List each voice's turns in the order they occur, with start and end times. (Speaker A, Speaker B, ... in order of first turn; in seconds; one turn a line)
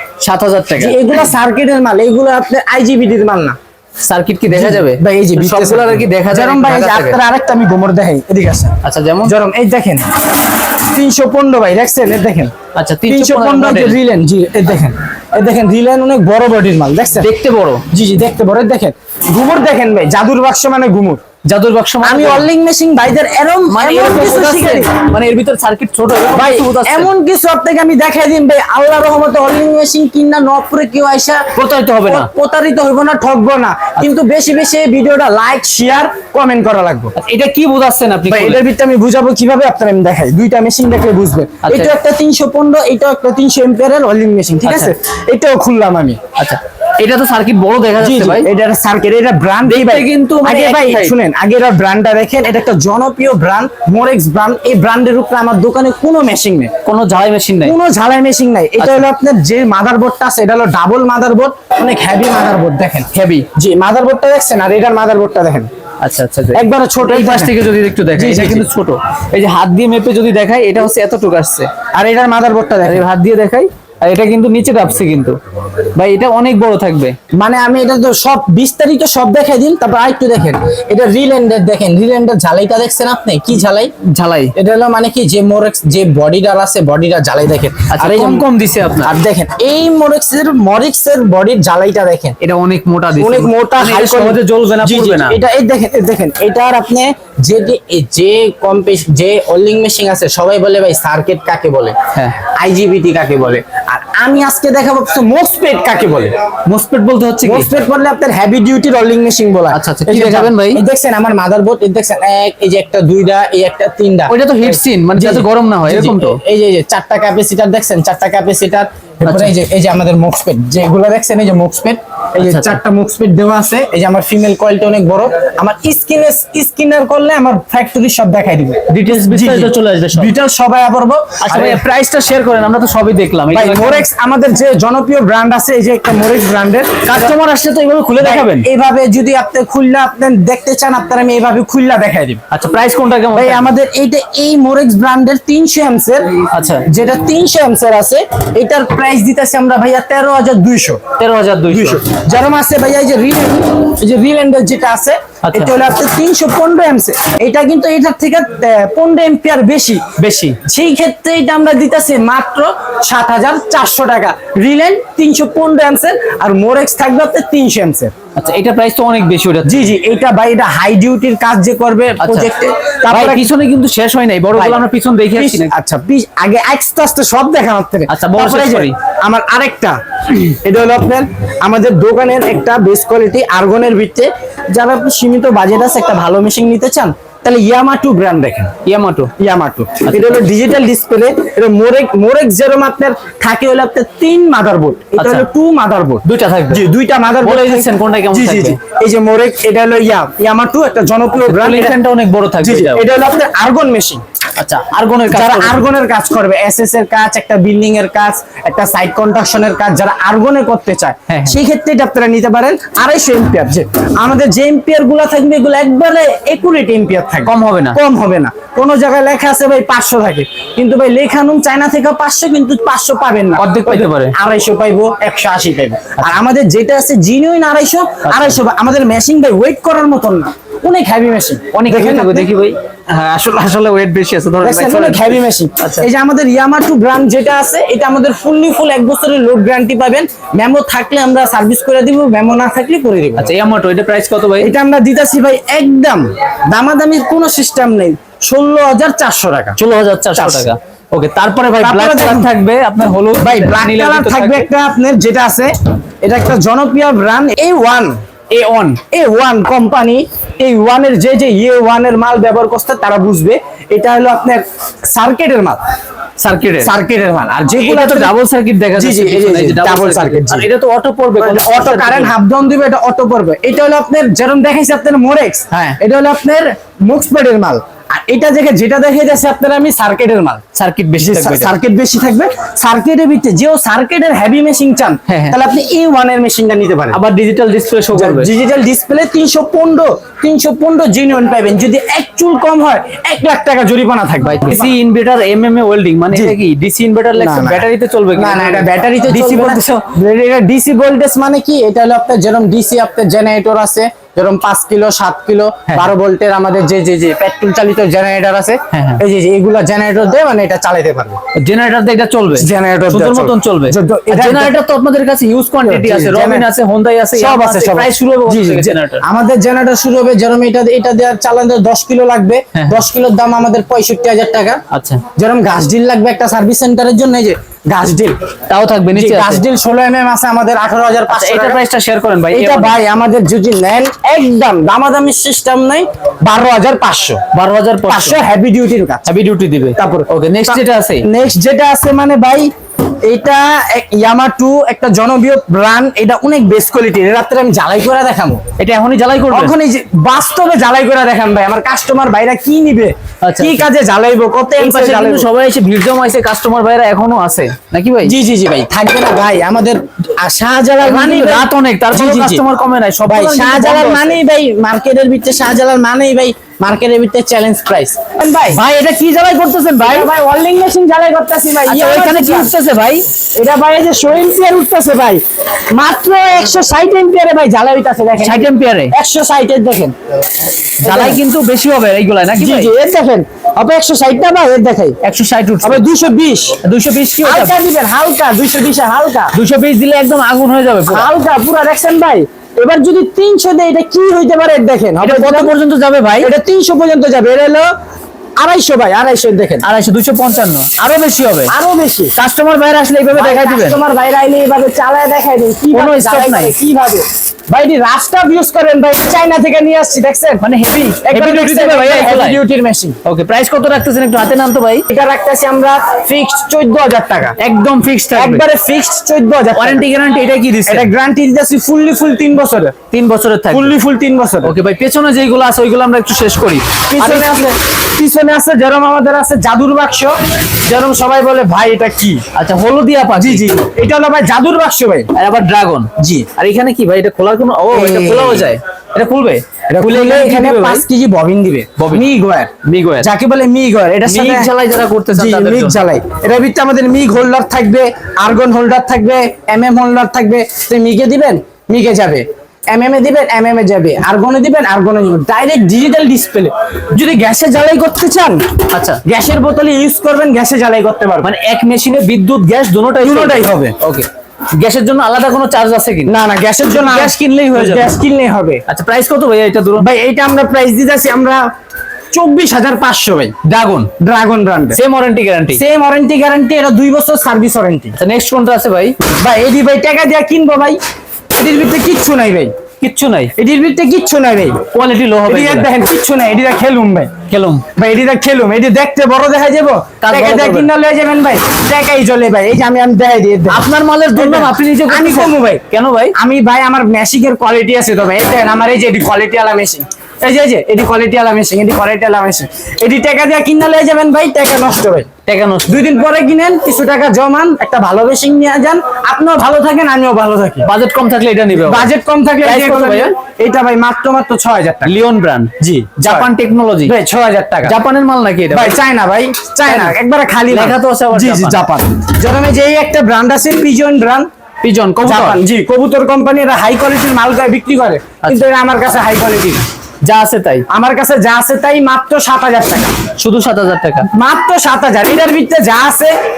Speaker A: 0.2-1.3
Speaker B: 0.8-3.6
Speaker A: 4.0-7.2
Speaker B: 4.5-10.0
Speaker A: 8.8-9.3
Speaker B: 10.8-12.5
Speaker A: 12.7-14.0
Speaker B: 13.1-17.3
Speaker A: 17.2-17.8
Speaker B: 17.9-21.2
Speaker A: 21.4-22.5
Speaker B: 22.0-25.0
Speaker A: 23.7-27.1
Speaker B: 26.3-31.5
Speaker A: 31.6-32.3
Speaker B: 32.0-37.1
Speaker A: 37.1-38.6
Speaker B: 38.3-46.2
Speaker A: 41.6-41.9
Speaker A: 44.6-44.9
Speaker A: 46.4-48.5
Speaker B: 48.0-56.7
Speaker A: 49.6-51.1
Speaker A: 56.8-57.7
Speaker B: 57.6-65.7
Speaker A: 58.8-59.0
Speaker A: 63.1-63.5
Speaker A: 66.0-71.7
Speaker B: 66.5-68.7
Speaker B: 71.9-73.0
Speaker A: 72.8-75.4
Speaker A: 76.0-77.2
Speaker B: 77.3-83.9
Speaker A: 84.0-84.5
Speaker B: 84.5-88.5
Speaker A: 87.9-89.1
Speaker B: 89.0-92.3
Speaker A: 92.4-95.4
Speaker B: 93.2-101.9
Speaker A: 102.1-102.4
Speaker B: 102.5-106.3
Speaker A: 106.7-107.7
Speaker B: 107.4-131.8
Speaker A: 109.7-110.8
Speaker A: 114.3-116.4
Speaker A: 119.2-119.5
Speaker A: 122.4-122.8
Speaker A: 128.9-130.3
Speaker A: 131.4-134.0
Speaker B: 133.5-136.9
Speaker A: 137.0-138.7
Speaker B: 138.2-142.4
Speaker A: 142.5-143.7
Speaker B: 143.3-146.3
Speaker A: 146.5-146.9
Speaker B: 146.8-151.0
Speaker A: 151.2-152.2
Speaker B: 151.7-160.1
Speaker A: 155.4-155.7
Speaker A: 160.2-160.6
Speaker B: 160.6-168.1
Speaker A: 168.3-169.8
Speaker B: 169.6-173.5
Speaker A: 172.2-172.5
Speaker A: 173.1-175.7
Speaker B: 174.5-174.8
Speaker B: 175.3-188.7
Speaker A: 178.1-178.9
Speaker A: 188.8-189.3
Speaker B: 189.4-202.0
Speaker A: 190.0-190.3
Speaker A: 195.2-195.4
Speaker A: 196.2-196.8
Speaker A: 197.4-198.8
Speaker A: 201.3-203.0
Speaker B: 202.6-204.2
Speaker A: 204.6-205.8
Speaker B: 205.3-232.5
Speaker A: 211.3-211.6
Speaker A: 217.4-218.0
Speaker A: 223.6-224.3
Speaker A: 228.2-228.6
Speaker A: 231.7-236.1
Speaker B: 234.6-243.5
Speaker A: 243.4-244.7
Speaker B: 244.6-249.8
Speaker A: 249.8-254.7
Speaker B: 250.3-250.7
Speaker B: 251.8-252.5
Speaker B: 253.4-255.7
Speaker B: 256.2-258.1
Speaker A: 258.5-259.0
Speaker B: 259.1-265.8
Speaker A: 266.4-266.9
Speaker B: 266.8-268.3
Speaker A: 267.8-272.3
Speaker B: 268.9-270.7
Speaker B: 271.4-280.6
Speaker A: 275.7-276.0
Speaker A: 280.7-281.7
Speaker B: 281.2-287.2
Speaker A: 285.3-285.6
Speaker A: 287.1-288.5
Speaker B: 288.1-294.9
Speaker A: 294.4-300.1
Speaker B: 296.3-296.6
Speaker B: 297.4-311.4
Speaker A: 308.9-309.2
Speaker A: 311.6-319.2
Speaker B: 312.6-314.8
Speaker B: 315.8-316.7
Speaker B: 317.3-324.8
Speaker A: 322.7-323.0
Speaker A: 324.9-325.2
Speaker B: 325.4-328.3
Speaker A: 328.7-329.6
Speaker B: 329.1-331.8
Speaker A: 331.3-332.9
Speaker B: 332.5-337.4
Speaker A: 337.5-338.4
Speaker B: 338.1-339.2
Speaker A: 339.2-341.2
Speaker B: 340.0-342.7
Speaker B: 343.2-348.6
Speaker A: 348.8-349.7
Speaker B: 349.5-355.5
Speaker A: 353.4-353.8
Speaker A: 354.8-358.3
Speaker B: 358.2-362.6
Speaker A: 361.0-364.4
Speaker B: 363.3-368.8
Speaker A: 368.7-370.3
Speaker B: 370.0-372.7
Speaker A: 371.9-373.2
Speaker B: 373.6-375.4
Speaker B: 375.9-380.1
Speaker A: 378.4-379.1
Speaker A: 381.0-382.9
Speaker B: 381.0-381.4
Speaker B: 382.5-385.2
Speaker A: 385.2-386.0
Speaker B: 385.8-386.8
Speaker A: 386.8-387.7
Speaker B: 387.4-389.5
Speaker A: 389.5-391.3
Speaker B: 391.1-395.7
Speaker A: 395.2-396.5
Speaker B: 396.4-397.9
Speaker B: 398.6-399.9
Speaker A: 399.8-401.7
Speaker B: 401.7-402.3
Speaker A: 402.3-404.0
Speaker B: 403.3-410.6
Speaker A: 405.9-406.7
Speaker A: 410.6-412.6
Speaker B: 411.2-413.2
Speaker A: 413.2-415.0
Speaker B: 415.1-417.5
Speaker A: 417.6-418.6
Speaker B: 418.3-420.0
Speaker A: 419.8-421.1
Speaker B: 420.8-422.9
Speaker A: 423.1-423.9
Speaker B: 423.7-424.7
Speaker A: 424.6-427.7
Speaker B: 427.1-430.3
Speaker B: 430.9-432.4
Speaker A: 432.5-433.7
Speaker B: 433.4-435.3
Speaker A: 435.3-441.0
Speaker B: 436.2-436.5
Speaker B: 437.9-438.8
Speaker B: 439.9-444.7
Speaker A: 442.0-442.3
Speaker A: 442.8-443.3
Speaker A: 444.2-446.0
Speaker B: 445.3-458.6
Speaker A: 458.9-459.2
Speaker B: 459.2-461.5
Speaker A: 461.4-466.3
Speaker B: 463.2-463.9
Speaker B: 466.2-468.8
Speaker A: 466.9-468.1
Speaker A: 468.9-470.1
Speaker B: 470.0-471.6
Speaker B: 472.3-473.5
Speaker A: 473.6-474.1
Speaker B: 474.2-475.0
Speaker A: 474.9-475.8
Speaker B: 475.7-478.1
Speaker A: 478.2-479.1
Speaker B: 479.4-481.0
Speaker B: 481.6-482.7
Speaker A: 483.0-483.5
Speaker B: 483.6-484.8
Speaker A: 484.9-485.9
Speaker B: 485.4-487.3
Speaker A: 487.5-487.8
Speaker B: 488.0-495.8
Speaker A: 490.2-490.9
Speaker A: 493.7-496.3
Speaker B: 496.4-505.3
Speaker A: 505.4-506.0
Speaker B: 505.9-510.9
Speaker A: 510.8-512.1
Speaker B: 511.7-515.1
Speaker A: 512.6-513.3
Speaker A: 515.0-517.1
Speaker B: 515.8-516.5
Speaker B: 517.0-518.0
Speaker A: 517.8-519.0
Speaker B: 518.7-524.5
Speaker A: 519.9-520.1
Speaker A: 520.7-521.8
Speaker A: 524.8-525.6
Speaker B: 525.2-529.9
Speaker A: 528.4-528.7
Speaker A: 530.2-530.8
Speaker B: 530.9-533.1
Speaker A: 533.4-534.3
Speaker B: 534.3-536.3